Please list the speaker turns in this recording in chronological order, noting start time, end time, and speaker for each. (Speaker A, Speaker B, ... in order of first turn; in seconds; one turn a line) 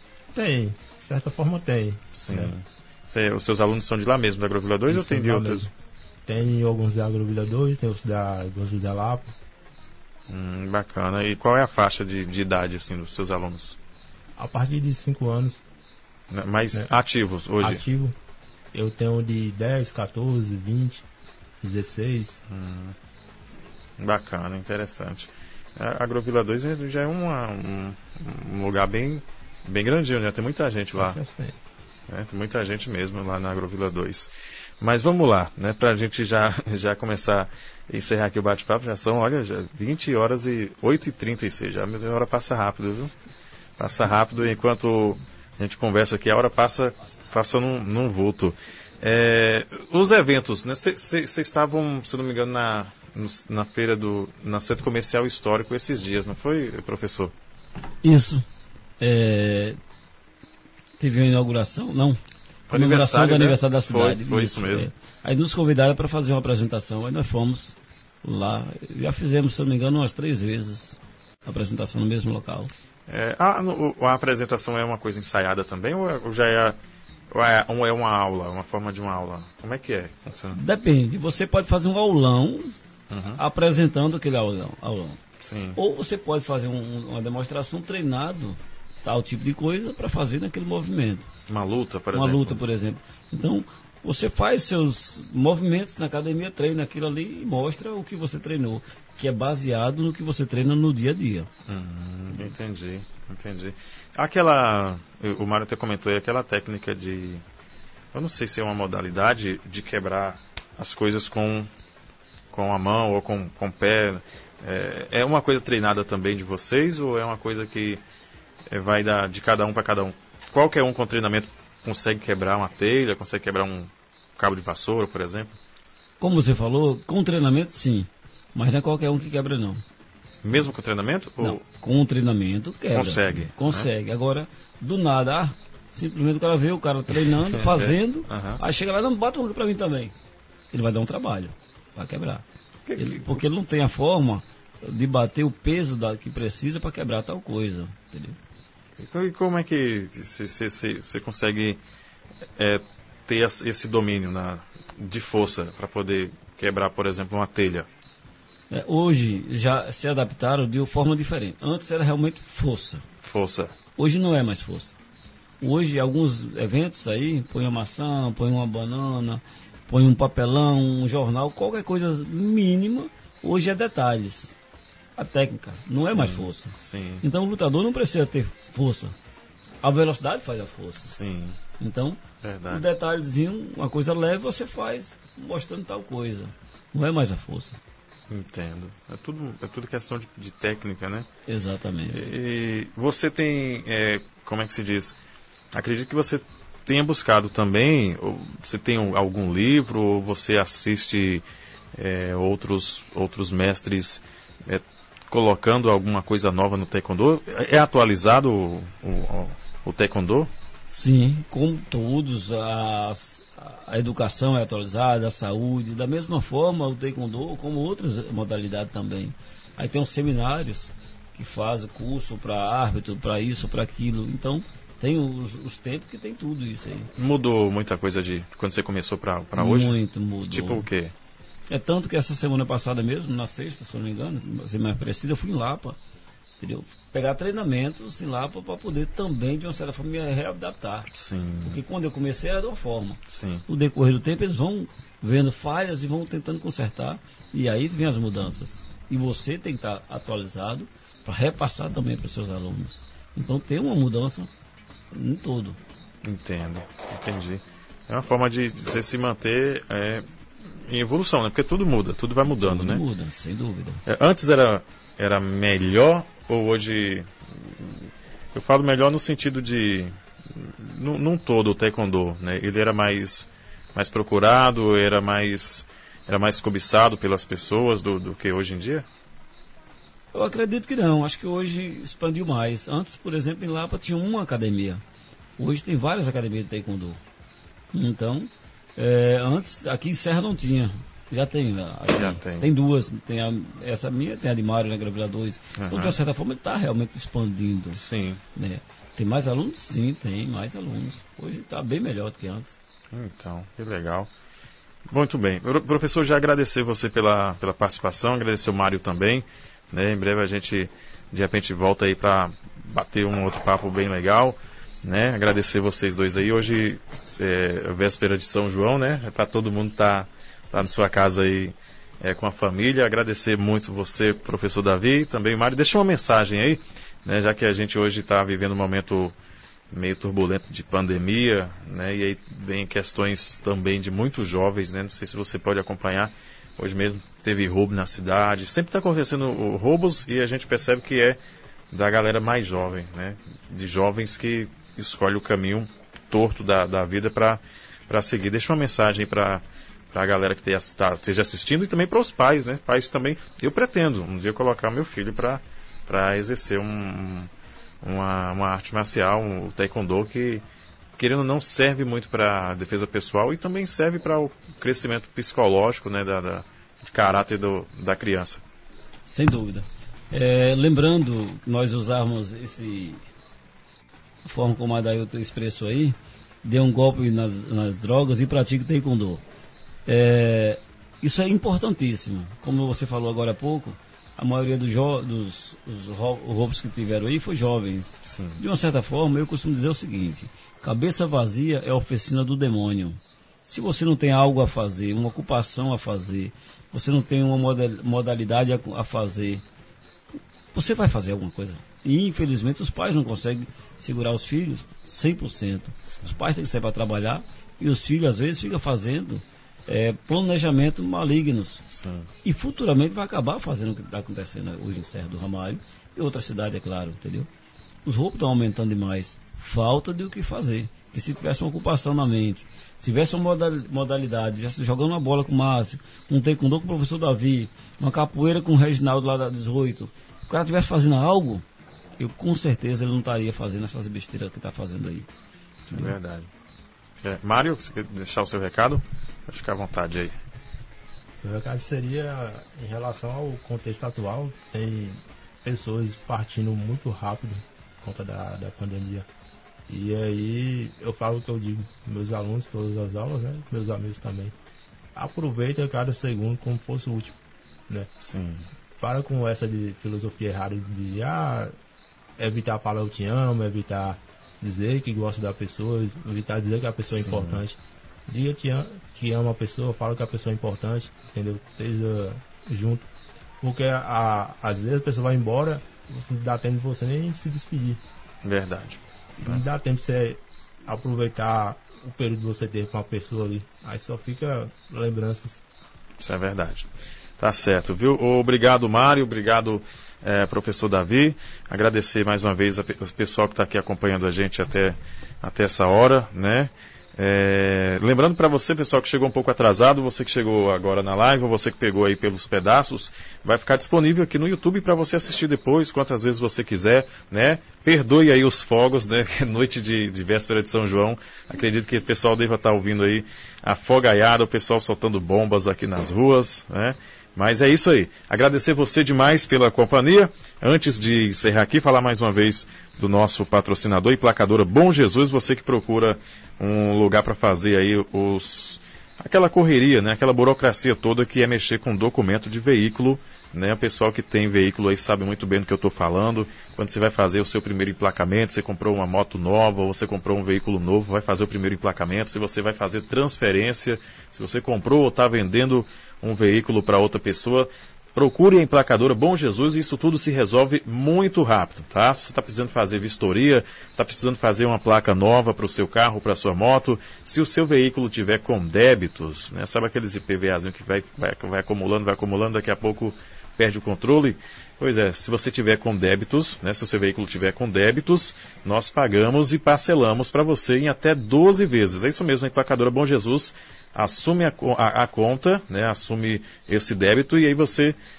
Speaker A: 0.3-2.5
Speaker B: 2.1-5.7
Speaker A: 4.9-5.7
Speaker A: 6.2-9.3
Speaker B: 10.3-13.8
Speaker A: 14.4-15.6
Speaker B: 16.3-17.8
Speaker A: 17.6-18.1
Speaker A: 18.7-21.0
Speaker A: 21.6-22.4
Speaker B: 22.5-22.9
Speaker B: 24.0-31.2
Speaker A: 30.9-31.6
Speaker B: 32.1-43.1
Speaker B: 43.8-57.3
Speaker C: 58.0-58.4
Speaker C: 59.0-59.8
Speaker C: 61.0-62.2
Speaker B: 62.7-64.9
Speaker C: 62.7-72.7
Speaker B: 73.1-76.8
Speaker B: 77.3-80.6
Speaker C: 80.5-82.7
Speaker B: 83.1-83.4
Speaker C: 83.4-85.2
Speaker B: 85.4-85.8
Speaker C: 85.8-91.3
Speaker B: 91.5-92.6
Speaker C: 92.1-101.5
Speaker B: 101.7-107.4
Speaker B: 108.1-111.7
Speaker B: 112.5-118.0
Speaker B: 118.7-125.5
Speaker C: 126.2-129.8
Speaker B: 130.4-131.6
Speaker C: 131.4-140.1
Speaker B: 132.9-133.9
Speaker B: 137.3-138.6
Speaker C: 140.7-142.4
Speaker B: 142.9-143.3
Speaker C: 143.0-148.4
Speaker B: 149.0-151.8
Speaker B: 152.6-157.9
Speaker C: 158.7-163.0
Speaker B: 163.2-163.7
Speaker C: 163.9-164.9
Speaker C: 165.6-174.5
Speaker C: 175.2-179.1
Speaker B: 176.0-177.2
Speaker C: 179.8-181.1
Speaker B: 181.1-181.6
Speaker C: 181.8-187.8
Speaker B: 182.4-182.8
Speaker B: 188.3-191.3
Speaker C: 191.5-192.2
Speaker B: 192.1-195.2
Speaker B: 195.7-201.4
Speaker B: 201.9-210.5
Speaker C: 210.9-227.1
Speaker B: 227.2-230.0
Speaker C: 229.6-230.8
Speaker B: 230.5-231.1
Speaker C: 231.7-236.0
Speaker C: 236.6-241.1
Speaker B: 241.1-241.8
Speaker C: 241.6-254.5
Speaker B: 243.3-243.6
Speaker C: 255.1-255.8
Speaker B: 256.2-263.0
Speaker C: 262.4-264.0
Speaker B: 264.0-279.1
Speaker C: 280.3-285.0
Speaker C: 285.6-287.2
Speaker C: 287.9-298.0
Speaker B: 292.1-292.7
Speaker B: 295.8-296.1
Speaker B: 297.9-298.4
Speaker C: 298.5-302.8
Speaker B: 303.1-304.3
Speaker B: 305.1-329.3
Speaker B: 329.9-341.4
Speaker B: 341.9-357.5
Speaker B: 358.0-360.6
Speaker B: 361.2-368.6
Speaker C: 369.3-373.2
Speaker C: 374.4-379.4
Speaker C: 380.1-399.6
Speaker B: 388.2-388.6
Speaker C: 400.7-411.9
Speaker B: 411.9-412.3
Speaker C: 412.4-417.5
Speaker C: 418.0-431.6
Speaker C: 432.2-435.3
Speaker B: 435.9-436.5
Speaker B: 437.2-440.4
Speaker A: 441.4-449.3
Speaker A: 449.9-454.5
Speaker A: 455.1-457.4
Speaker B: 458.2-458.7
Speaker A: 459.0-461.7
Speaker A: 462.4-473.0
Speaker B: 467.1-467.6
Speaker A: 473.6-478.0
Speaker B: 478.4-479.6
Speaker A: 479.4-485.6
Speaker B: 486.2-578.0